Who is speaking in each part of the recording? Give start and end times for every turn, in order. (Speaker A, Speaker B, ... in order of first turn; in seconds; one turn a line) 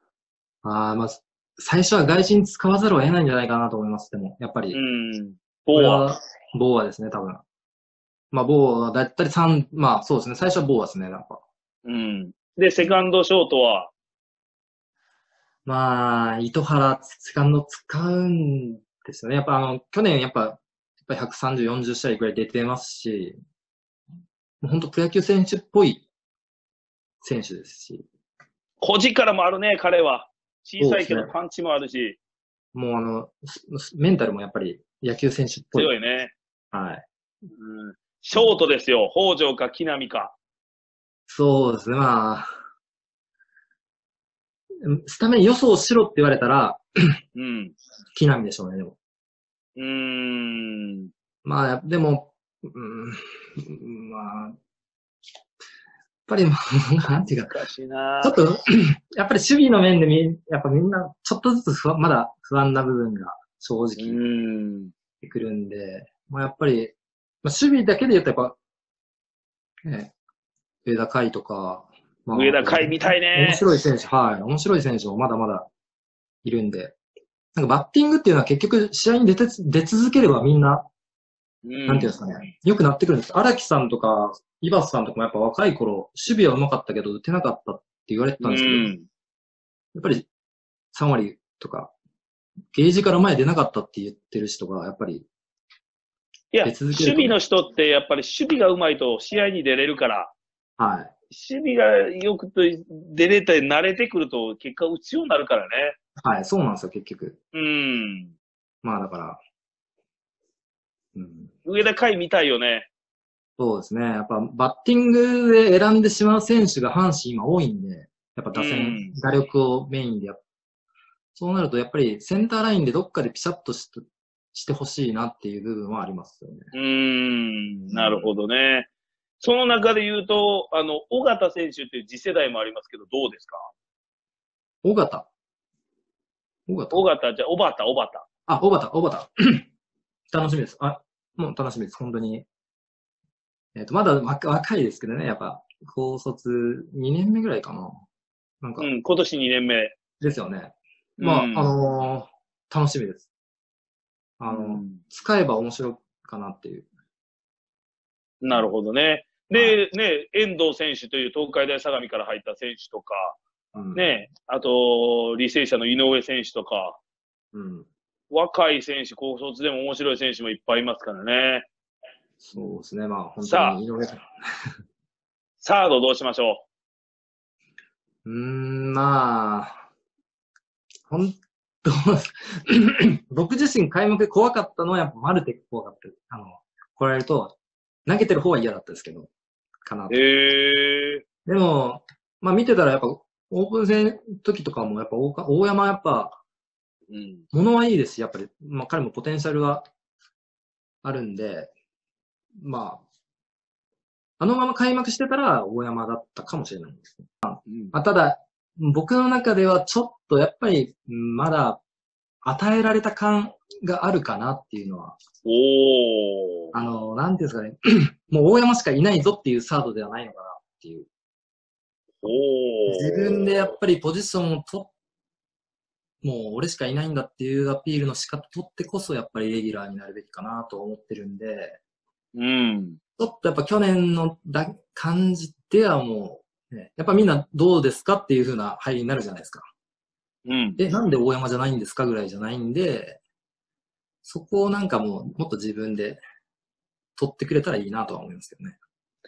Speaker A: 0.6-4.8
Speaker B: 4.7-6.1
Speaker A: 5.7-7.4
Speaker A: 8.3-11.4
Speaker B: 11.8-13.9
Speaker A: 15.7-23.4
Speaker A: 24.6-26.1
Speaker A: 27.2-28.1
Speaker B: 28.8-32.2
Speaker A: 30.8-31.3
Speaker A: 32.7-35.9
Speaker B: 35.7-36.4
Speaker A: 36.7-37.0
Speaker B: 37.6-40.4
Speaker A: 41.3-42.5
Speaker A: 44.8-46.8
Speaker B: 47.4-47.8
Speaker A: 48.1-49.0
Speaker B: 49.8-51.1
Speaker A: 51.5-54.6
Speaker A: 56.3-57.6
Speaker B: 57.4-58.4
Speaker A: 58.2-64.2
Speaker B: 64.0-64.9
Speaker A: 65.2-68.6
Speaker A: 69.9-70.1
Speaker A: 70.8-75.7
Speaker B: 72.3-73.6
Speaker A: 76.4-77.0
Speaker A: 77.5-80.9
Speaker B: 81.7-82.5
Speaker A: 81.9-88.9
Speaker B: 88.4-89.1
Speaker A: 90.0-90.3
Speaker A: 90.9-91.9
Speaker A: 92.7-95.3
Speaker B: 96.5-100.3
Speaker A: 96.6-97.4
Speaker A: 100.8-101.1
Speaker B: 101.3-106.0
Speaker A: 106.2-107.4
Speaker B: 107.5-108.3
Speaker A: 108.8-109.4
Speaker A: 111.2-111.5
Speaker B: 111.7-112.9
Speaker A: 113.6-120.4
Speaker B: 118.5-119.2
Speaker A: 121.4-126.7
Speaker B: 126.7-128.9
Speaker A: 127.9-128.3
Speaker B: 129.4-133.7
Speaker A: 134.8-135.3
Speaker A: 136.7-137.1
Speaker B: 136.9-138.2
Speaker A: 138.5-139.7
Speaker A: 140.3-142.5
Speaker A: 143.8-148.0
Speaker A: 148.6-148.9
Speaker B: 148.8-150.0
Speaker A: 150.2-153.3
Speaker B: 151.2-151.7
Speaker A: 154.4-156.9
Speaker B: 154.5-155.0
Speaker B: 158.4-163.4
Speaker A: 159.5-159.8
Speaker A: 163.7-164.2
Speaker B: 163.9-167.0
Speaker A: 167.5-167.9
Speaker B: 168.3-171.7
Speaker A: 172.4-174.7
Speaker B: 173.5-173.8
Speaker B: 175.6-176.7
Speaker A: 178.2-179.8
Speaker A: 181.1-189.3
Speaker A: 189.8-190.2
Speaker B: 190.1-191.2
Speaker A: 191.5-196.4
Speaker B: 197.1-197.4
Speaker A: 197.5-199.9
Speaker A: 201.0-201.7
Speaker A: 202.6-203.0
Speaker A: 204.4-211.8
Speaker B: 207.7-207.9
Speaker A: 212.4-215.2
Speaker B: 215.4-216.7
Speaker A: 216.7-221.1
Speaker B: 222.2-223.7
Speaker A: 222.9-224.9
Speaker A: 226.2-231.8
Speaker B: 232.3-233.0
Speaker A: 233.2-239.7
Speaker B: 240.5-240.8
Speaker A: 240.8-243.2
Speaker A: 244.2-246.2
Speaker A: 247.2-248.8